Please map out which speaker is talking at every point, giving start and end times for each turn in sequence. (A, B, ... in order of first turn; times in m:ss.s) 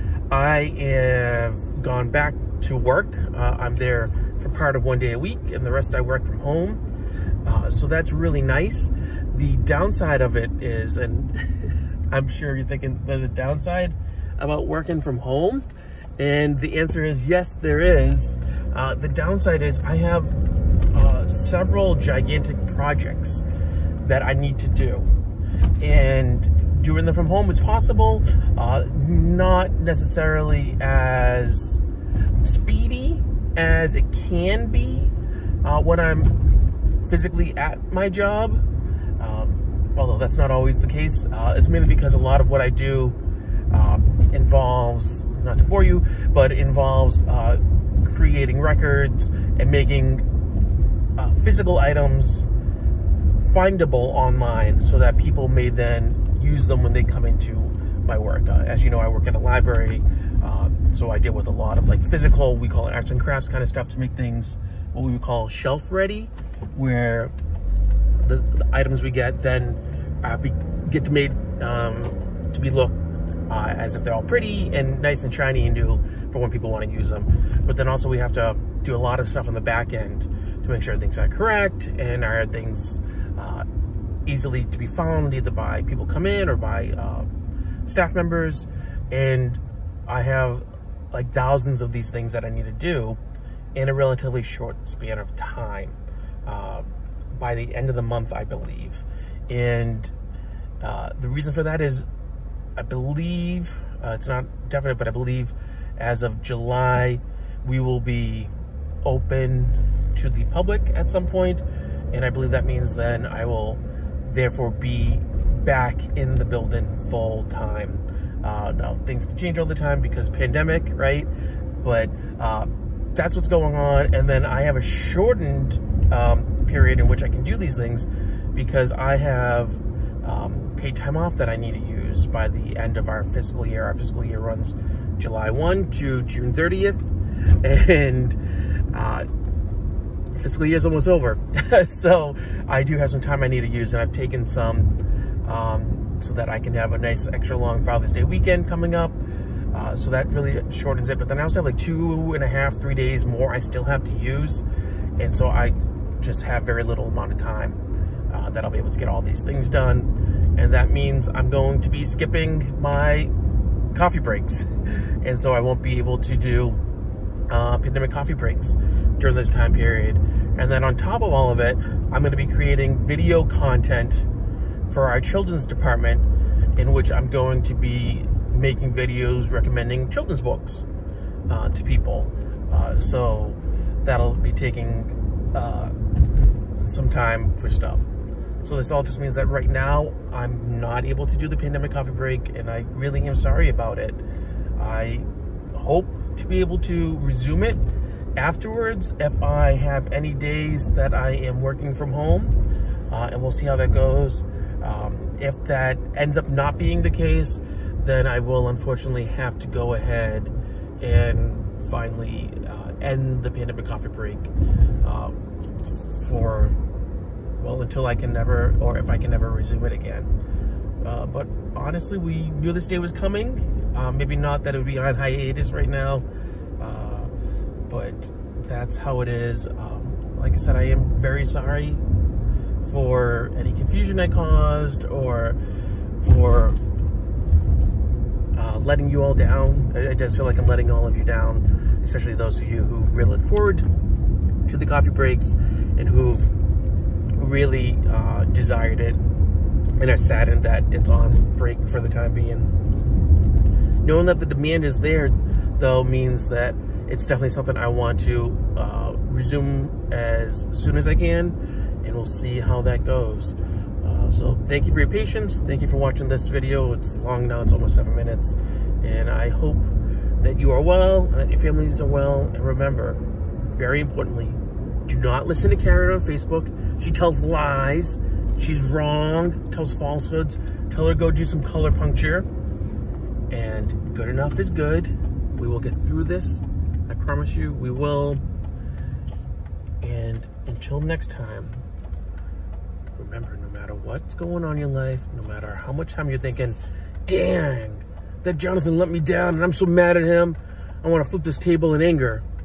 0:00.3-0:06.8 A
0:07.4-0:15.7 A
0:16.2-0:23.4 A
0:24.0-0:25.1 A
0:25.8-0:31.8 A
0:32.4-0:36.5 A
0:37.0-0:38.6 A
0:39.2-0:43.2 A
0:43.7-0:50.2 A
0:51.2-0:52.5 A
0:53.4-1:07.3 A
1:08.2-1:23.7 A
1:24.2-1:27.3 A
1:27.8-1:33.2 A
1:33.8-1:40.1 A
1:40.8-1:42.1 A
1:42.8-1:48.5 A
1:49.0-2:01.3 A
2:01.8-2:17.1 A
2:17.6-2:18.4 A
2:18.9-2:19.3 A
2:20.3-2:29.2 A
2:29.7-2:34.6 A
2:35.2-2:37.8 A
2:38.3-2:43.3 A
2:43.9-2:46.8 A
2:47.5-2:54.3 A
2:54.9-3:00.8 A
3:01.5-3:06.0 A
3:06.8-3:08.1 A
3:08.6-3:14.2 A
3:14.8-3:17.8 A
3:18.4-3:22.6 A
3:23.1-3:35.4 A
3:36.1-3:36.8 A
3:37.6-3:40.3 A
3:41.0-3:46.2 A
3:46.8-3:47.3 A
3:47.9-3:52.0 A
3:52.8-3:55.6 A
3:56.2-3:56.8 A
3:58.5-4:03.9 A
4:04.7-4:06.5 A
4:07.4-4:09.2 A
4:10.0-4:12.7 A
4:14.0-4:42.5 A
4:43.5-4:48.4 A
4:50.0-4:51.8 A
4:53.2-5:02.4 A